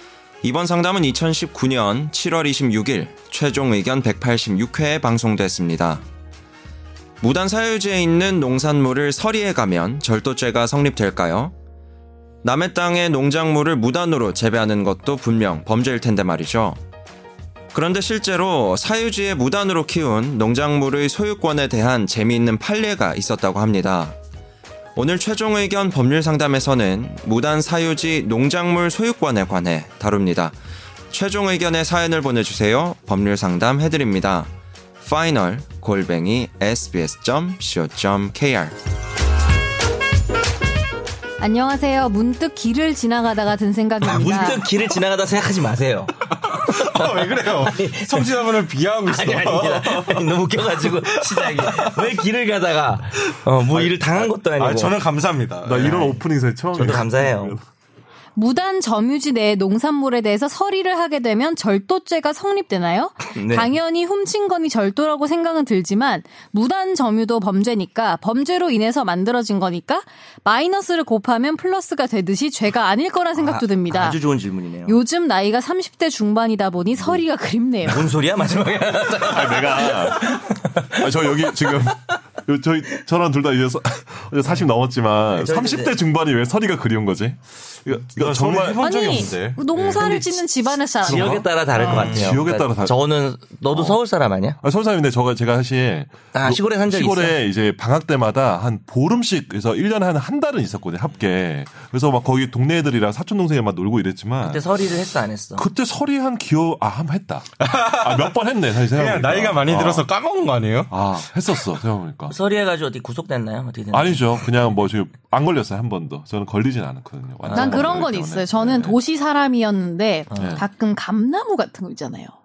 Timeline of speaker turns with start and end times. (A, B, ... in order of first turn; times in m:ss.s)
0:00.4-0:06.0 A
0:07.2-0:11.5 A
0:12.4-0:16.8 A
0:17.7-0:24.2 A
0:25.0-0:30.6 A
0:31.1-0:34.5 A
0:35.0-0:38.8 A
0:41.4-0:44.6 B
0:44.0-0:48.3 C
0:46.3-0:52.0 D
0:49.0-0:55.0 C
0:53.6-0:56.1 D
0:55.6-0:57.6 E
0:55.8-0:56.2 C
0:56.7-0:57.6 C
0:58.4-1:14.2 B
1:03.4-1:03.7 C
1:13.4-1:15.0 C
1:14.8-1:18.2 B
1:17.8-1:21.9 C
1:19.1-1:28.8 E
1:25.4-1:26.0 C
1:28.0-1:30.4 D
1:28.8-1:32.0 B
1:31.0-1:34.6 C
1:31.2-1:33.0 E
1:31.8-1:32.4 D
1:33.7-1:34.0 E
1:34.6-1:44.7 E
1:36.3-1:37.4 C
1:44.4-1:45.7 C
1:45.6-1:50.1 E
1:47.6-1:50.9 D
1:50.9-1:52.4 E
1:52.3-1:54.4 C
1:53.9-1:59.0 E
1:57.4-1:58.1 C
1:57.6-2:02.3 B
2:00.3-2:00.6 C